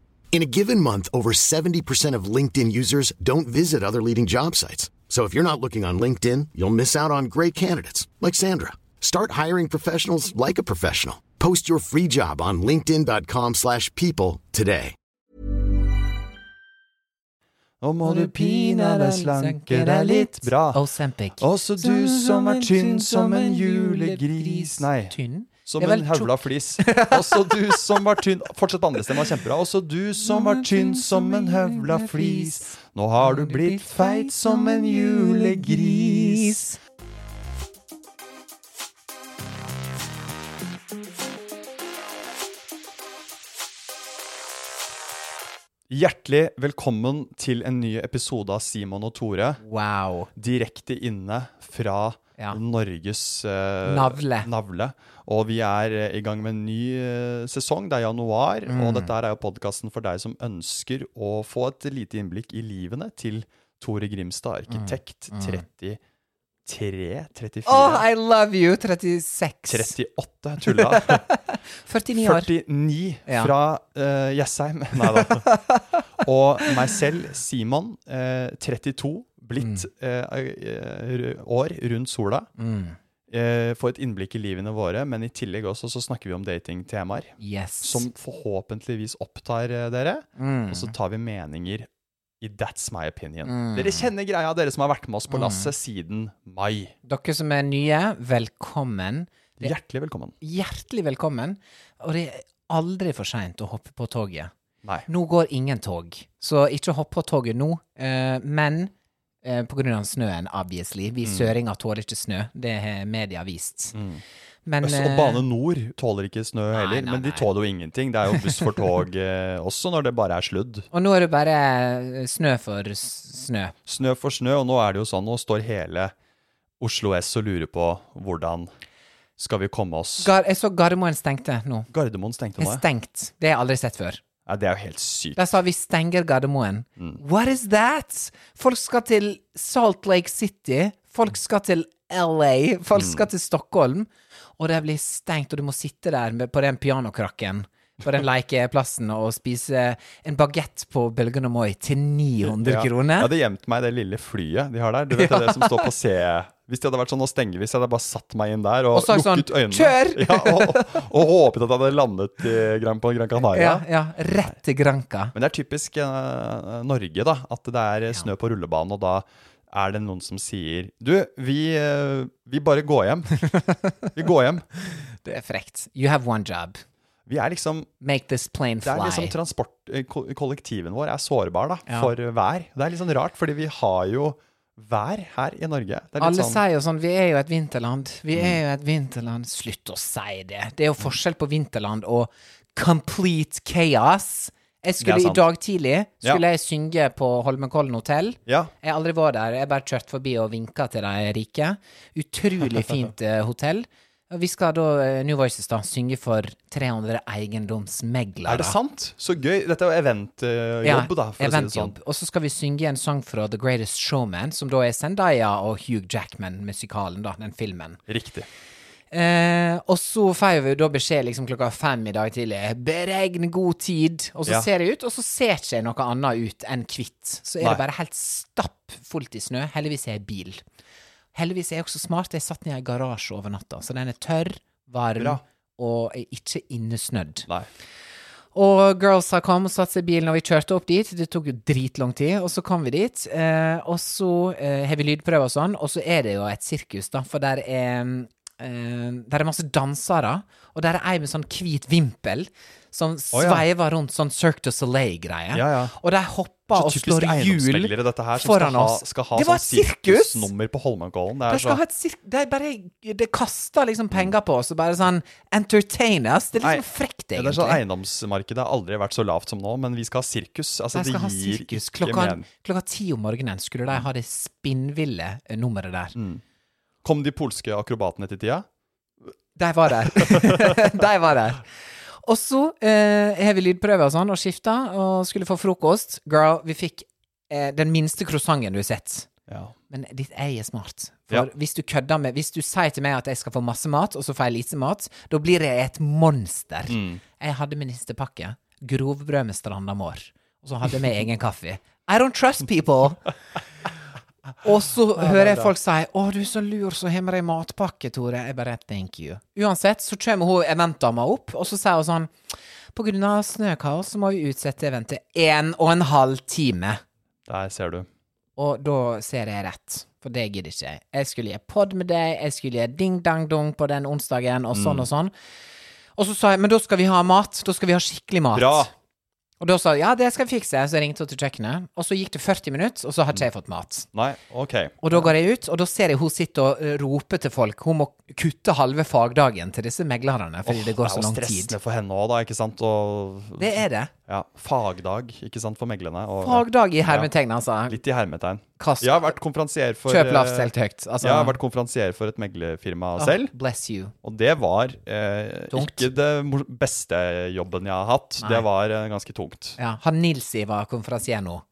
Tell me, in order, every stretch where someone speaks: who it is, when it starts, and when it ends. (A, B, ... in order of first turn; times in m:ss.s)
0:00.3-0:15.0 A
0:17.8-0:20.8 B
0:18.0-0:27.9 C
0:21.4-0:25.1 B
0:25.6-0:36.6 B
0:30.2-0:36.8 C
0:45.9-0:49.6 B
0:49.6-0:50.3 C
0:50.4-1:06.0 B
0:53.8-0:54.5 C
0:58.7-0:59.1 C
1:04.7-1:05.6 C
1:06.6-1:08.0 B
1:07.7-1:09.9 C
1:09.7-1:11.2 B
1:10.6-1:12.5 C
1:12.2-1:15.5 B
1:13.3-1:13.5 C
1:15.0-1:16.0 C
1:16.2-1:22.5 B
1:19.6-1:19.8 C
1:22.6-1:23.0 C
1:23.3-1:31.9 B
1:27.4-1:28.1 C
1:30.4-1:30.9 C
1:32.4-1:37.0 B
1:33.5-1:34.1 C
1:35.3-1:35.7 C
1:37.1-1:39.7 C
1:39.6-1:40.3 B
1:40.4-1:44.5 C
1:45.1-1:48.9 C
1:49.4-1:54.0 C
1:51.2-1:51.6 B
1:53.9-1:54.2 B
1:54.7-1:55.4 C
1:54.8-2:00.9 B
1:56.7-1:57.5 C
1:58.3-1:58.8 C
2:00.9-2:03.8 C
2:03.9-2:06.1 B
2:06.8-2:08.7 B
2:09.4-2:10.3 B
2:10.2-2:11.9 C
2:11.9-2:12.8 B
2:12.6-2:14.2 C
2:14.5-2:15.6 B
2:15.4-2:33.3 C
2:22.9-2:23.3 B
2:32.4-2:43.8 B
2:35.1-2:35.9 C
2:38.9-2:41.0 C
2:43.5-2:45.3 C
2:45.3-2:53.4 B
2:53.4-2:53.9 C
2:54.2-2:54.7 B
2:55.0-2:56.8 C
2:57.3-2:57.9 B
2:58.0-2:59.3 C
2:58.8-3:06.6 B
3:01.9-3:02.1 C
3:06.2-3:28.8 C
3:08.3-3:08.6 B
3:15.0-3:15.5 B
3:18.5-3:18.7 B
3:28.4-3:32.0 B
3:30.8-3:38.0 C
3:38.1-3:38.5 B
3:39.1-3:50.6 C
3:51.4-3:57.5 C
3:58.5-4:20.5 C
4:13.3-4:13.6 B
4:15.5-4:16.0 B
4:16.7-4:21.8 B
4:21.5-4:27.8 C
4:26.6-4:32.5 B
4:30.9-4:36.2 C
4:36.2-4:36.4 B
4:37.0-4:38.7 B
4:39.6-4:41.7 C
4:40.0-4:40.8 B
4:42.2-4:49.3 C
4:49.5-4:49.7 B
4:49.9-5:03.3 C
4:56.9-4:57.2 B
5:04.6-5:12.3 C
5:05.2-5:05.7 B
5:13.0-5:17.0 C
5:17.5-5:18.1 B
5:18.6-5:25.3 C
5:24.7-5:25.1 B
5:26.2-5:28.9 C
5:28.5-5:28.9 B
5:29.6-5:34.1 C
5:34.1-5:35.3 B
5:35.0-5:41.8 C
5:40.6-5:47.3 B
5:43.6-5:44.1 C
5:46.4-5:48.0 C
5:47.9-5:53.5 B
5:48.8-5:49.3 C
5:50.1-5:51.6 C
5:53.2-5:54.1 C
5:54.2-5:59.8 B
5:55.7-5:56.1 C
5:59.8-6:01.6 C